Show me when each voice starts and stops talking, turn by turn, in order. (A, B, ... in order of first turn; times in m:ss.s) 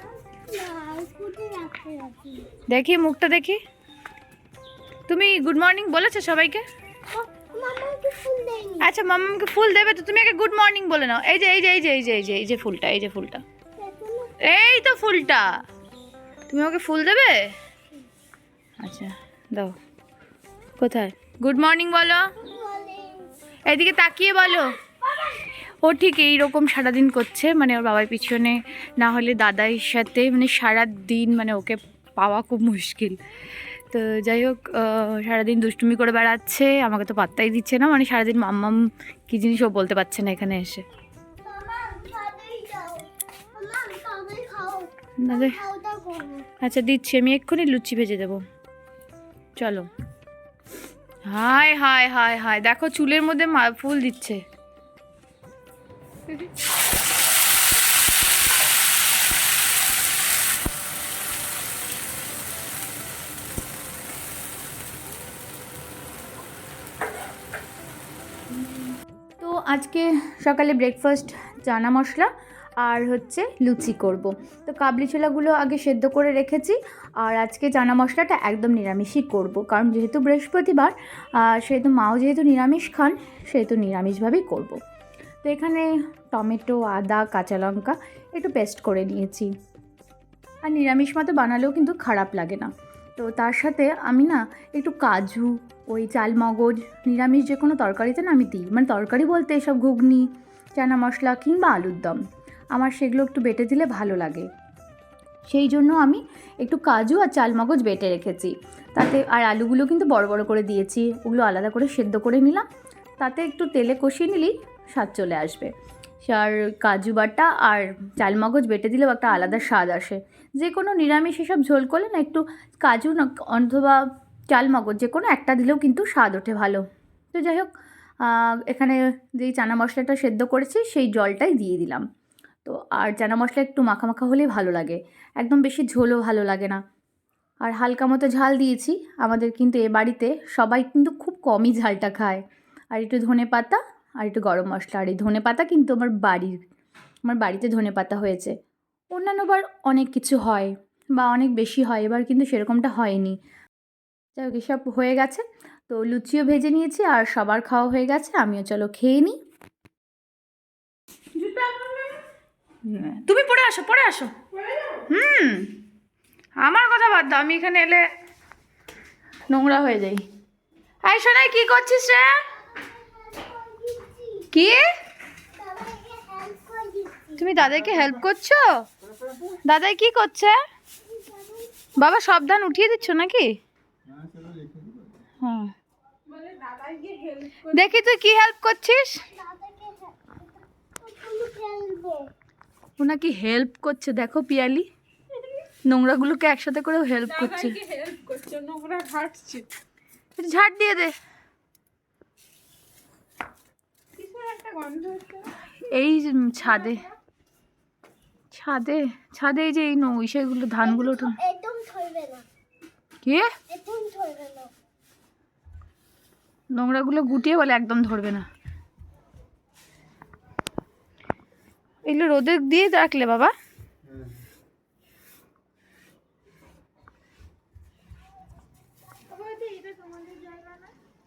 0:00.3-0:02.5 A
0:02.7-0:03.6 B
0:05.1-0:06.6 B
0:07.1-0:08.9 A
0:08.8-0:13.4 B
0:13.8-0:14.4 A
0:14.4-0:15.6 B
0:16.5-0:17.6 B
0:18.8-0:19.8 B
0:20.8-0:22.3 B
0:22.4-0:23.3 A
0:23.7-0:24.8 B
0:24.8-0:25.4 A
0:25.7-0:33.2 B
0:33.9-0:40.8 B
0:41.4-0:46.5 A
0:45.2-0:45.6 B
0:46.6-0:48.4 B
0:49.6-0:49.9 B
0:51.2-0:54.4 B
1:09.4-1:12.3 B
1:12.8-1:24.8 B
1:25.4-1:29.5 B
1:30.6-1:42.2 B
1:42.7-1:44.5 B
1:45.4-1:52.6 B
1:53.2-1:55.7 B
1:56.2-2:07.7 B
2:08.2-2:12.0 B
2:12.6-2:16.8 B
2:17.6-2:22.4 B
2:22.9-2:26.6 B
2:27.2-2:28.6 B
2:29.1-2:33.4 B
2:34.4-2:39.4 B
2:41.3-2:42.1 C
2:42.9-2:44.3 B
2:45.0-2:45.7 B
2:46.6-2:48.0 B
2:49.5-2:50.2 B
2:51.0-2:52.4 B
2:52.8-2:54.5 A
2:54.5-2:54.9 B
2:55.5-2:57.4 A
2:57.4-2:58.7 B
2:59.6-3:00.6 B
3:01.0-3:01.9 A
3:02.0-3:03.6 B
3:05.4-3:05.7 B
3:06.3-3:07.9 C
3:07.7-3:09.3 B
3:09.3-3:10.5 A
3:11.0-3:12.3 A
3:13.0-3:14.9 B
3:15.9-3:17.8 B
3:17.3-3:19.7 C
3:20.4-3:21.1 B
3:24.2-3:25.5 C
3:25.7-3:27.0 B
3:28.5-3:31.4 B
3:30.8-3:32.5 A
3:33.2-3:33.5 B
3:33.7-3:34.7 A
3:36.7-3:38.4 B
3:42.0-3:43.5 B
3:49.3-3:50.9 C